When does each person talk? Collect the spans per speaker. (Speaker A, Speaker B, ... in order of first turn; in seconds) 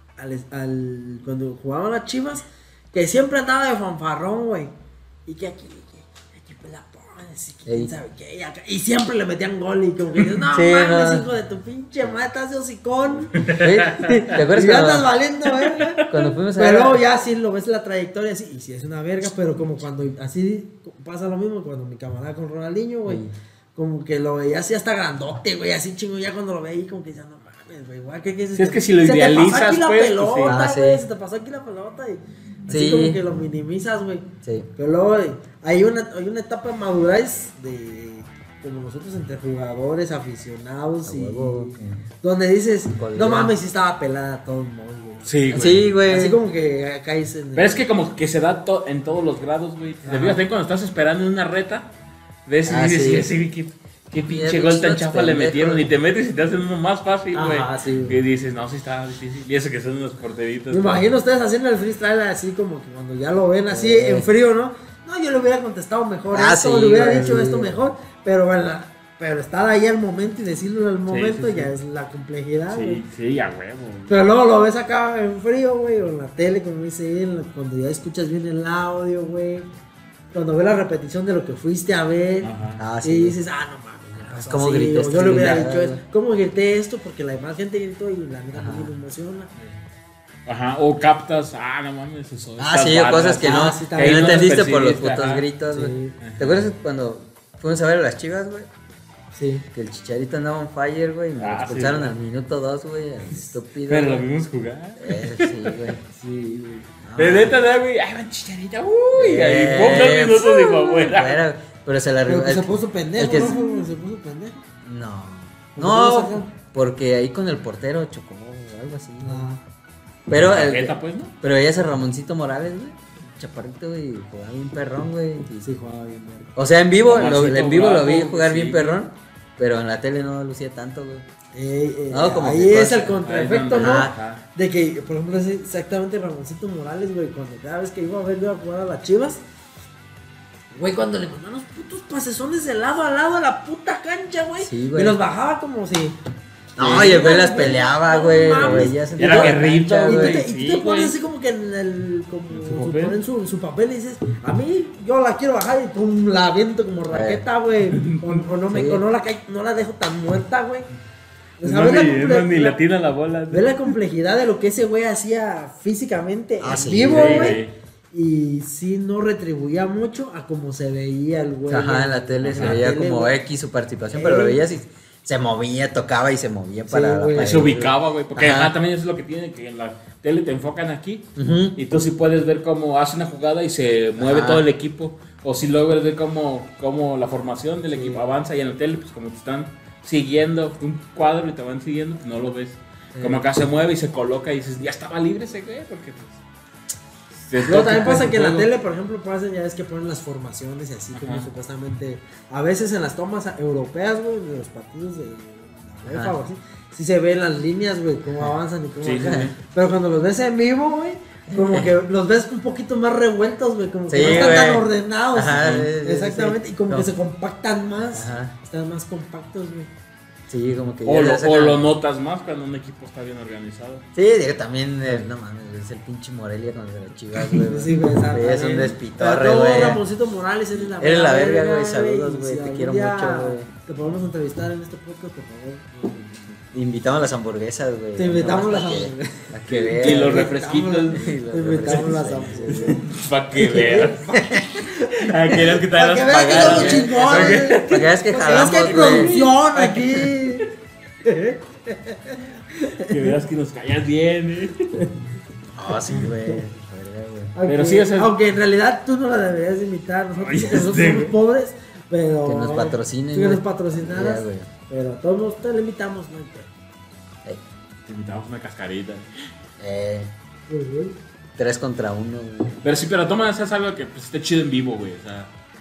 Speaker A: 0.2-4.7, 5.3-23.2, 23.8-45.4, 46.0-47.8, 50.0-50.4, 57.5-58.0, 60.7-73.0, 74.1-79.7, 80.3-82.5, 83.0-89.5, 93.4-94.7, 95.7-96.2, 99.3-99.7, 106.2-106.9, 112.2-114.6, 115.8-116.5, 119.2-119.6, 125.6-126.5, 131.5-139.4, 140.7-146.2, 146.8-160.9, 161.6-162.8, 163.5-173.4, 174.1-174.6, 176.9-177.7, 187.9-188.2, 197.7-219.9, 227.5-236.0, 238.2-243.0, 243.6-250.7, 251.2-253.2, 256.0-256.6, 257.6-266.7, 270.7-271.2
Speaker B: 7.7-7.9, 10.5-11.3, 13.6-15.1, 15.8-17.1, 23.1-23.3, 30.4-31.0, 32.7-33.2, 34.4-34.7, 41.1-42.0, 43.0-43.5, 45.5-46.4, 52.7-53.3, 54.2-55.9, 57.3-58.2, 63.7-64.3, 66.3-67.8, 82.8-83.4, 84.2-86.0, 88.5-88.9, 92.6-98.7, 99.7-104.3, 105.0-106.0, 107.0-107.6, 109.2-113.8, 114.8-119.5, 120.3-125.8, 126.5-131.3, 132.1-133.2, 133.8-134.2, 144.6-145.2, 146.8-150.4, 157.1-157.4, 158.7-159.0, 166.6-167.6, 171.7-178.7, 181.4-181.8, 184.2-184.7, 197.7-198.4, 206.1-206.4, 209.2-209.5, 211.5-211.9, 214.1-217.1, 218.1-218.6, 220.5-221.9, 224.1-230.0, 231.0-233.7, 236.7-240.5, 241.1-243.0, 246.3-249.4, 255.8-257.5, 262.4-264.7, 269.8-270.3, 271.6-272.8
Speaker C: 13.4-14.3, 15.8-16.3, 28.6-30.6, 45.2-45.9, 47.6-51.9, 52.5-61.1, 71.1-71.7, 72.7-74.3, 82.4-82.8, 90.5-95.5, 96.2-96.7, 101.4-102.1, 103.8-105.9, 107.2-111.4, 120.3-121.3, 127.0-129.0, 133.2-134.4, 148.6-151.2, 152.5-153.2, 157.8-158.5, 161.6-163.9, 167.1-167.7, 172.4-172.8, 177.3-196.4, 197.5-198.7, 201.1-201.5, 209.0-209.6, 214.2-214.6, 221.1-224.1, 236.0-236.5, 239.9-241.3, 241.8-244.2, 245.2-249.6, 253.0-255.1, 257.7-258.4, 260.4-261.4, 268.1-269.3, 272.8-275.5